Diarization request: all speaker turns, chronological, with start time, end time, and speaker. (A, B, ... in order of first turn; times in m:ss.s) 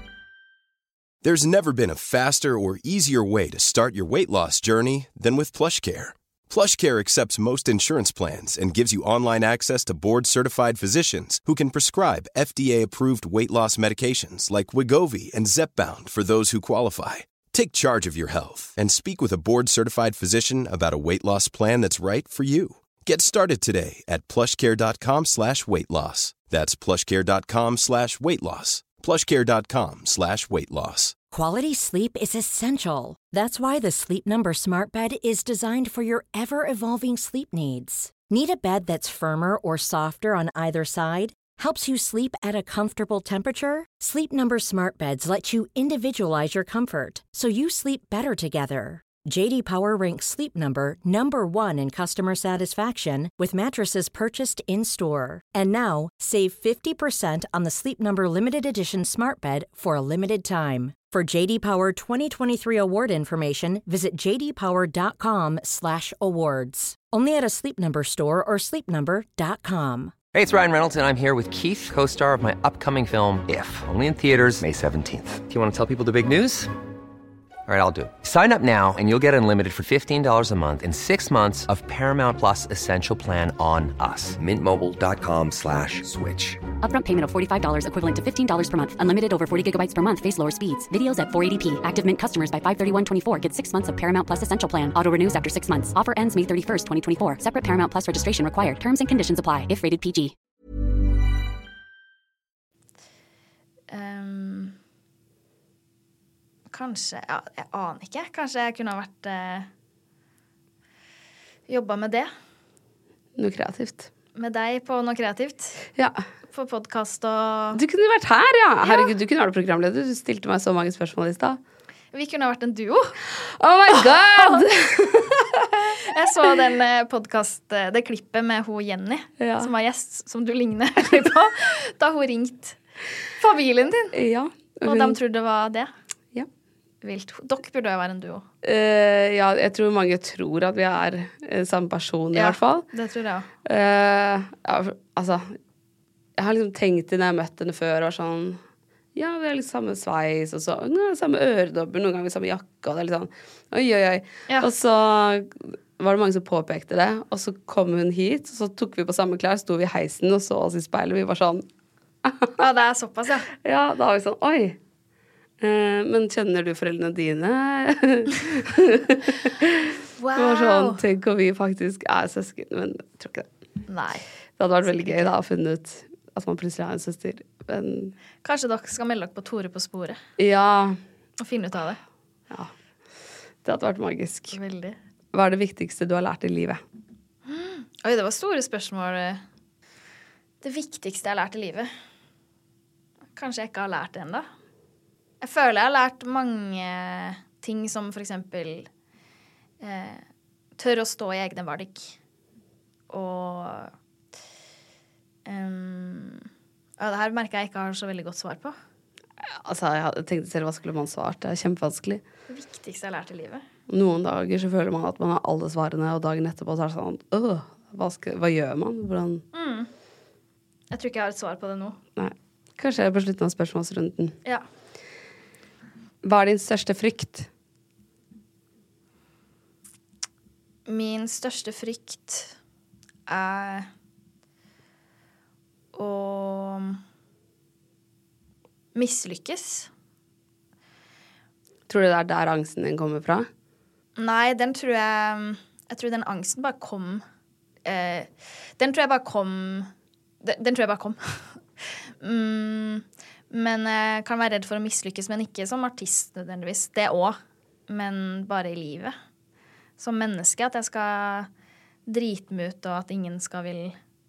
0:01.2-0:31.2 A
0:31.3-1:10.1 B
1:10.3-1:16.7 C
1:17.7-1:26.6 C
1:26.8-1:40.3 D
1:43.9-1:44.7 E
1:46.7-1:49.7 E
1:51.7-1:52.3 E
1:53.4-1:54.1 F
1:54.4-1:55.8 E
1:56.0-1:56.2 F
1:56.5-1:57.8 E
1:57.7-2:01.6 F
1:58.8-1:59.1 E
2:02.1-2:03.2 E
2:03.4-2:05.7 F
2:03.9-2:04.7 E
2:05.9-2:12.8 E
2:09.4-2:09.7 F
2:13.4-2:14.2 E
2:14.1-2:15.2 F
2:14.8-2:15.9 E
2:17.0-2:18.4 E
2:18.6-2:22.8 F
2:22.3-2:23.5 E
2:23.6-2:25.6 F
2:26.4-2:28.6 F
2:29.1-2:41.6 F
2:42.2-2:42.5 F
2:42.6-2:43.5 E
2:43.6-2:44.8 F
2:45.6-2:53.5 F
2:50.2-2:51.0 E
2:53.9-2:54.2 E
2:54.6-2:58.1 F
2:54.8-2:55.3 E
2:58.4-3:00.2 E
3:00.4-3:01.0 F
3:01.4-3:02.0 E
3:03.6-3:04.6 F
3:04.5-3:05.0 E
3:05.3-3:06.8 F
3:07.4-3:09.4 E
3:10.6-3:11.9 E
3:13.4-3:14.4 E
3:15.4-3:18.9 E
3:19.8-3:20.2 E
3:20.8-3:22.2 E
3:23.1-3:23.9 E
3:25.4-3:26.5 E
3:27.0-3:28.7 E
3:29.4-3:32.2 F
3:32.5-3:33.6 E
3:33.9-3:39.4 F
3:39.5-3:39.9 E
3:40.9-3:42.0 E
3:42.2-3:44.4 F
3:46.2-3:47.5 F
3:50.8-3:52.5 E
3:53.3-3:53.9 E
3:55.9-3:57.0 E
3:58.9-3:59.9 E
4:01.9-4:03.5 F
4:04.2-4:07.2 E
4:07.8-4:09.9 E
4:10.4-4:17.4 E
4:17.9-4:19.1 E
4:20.0-4:21.5 E
4:22.1-4:24.0 E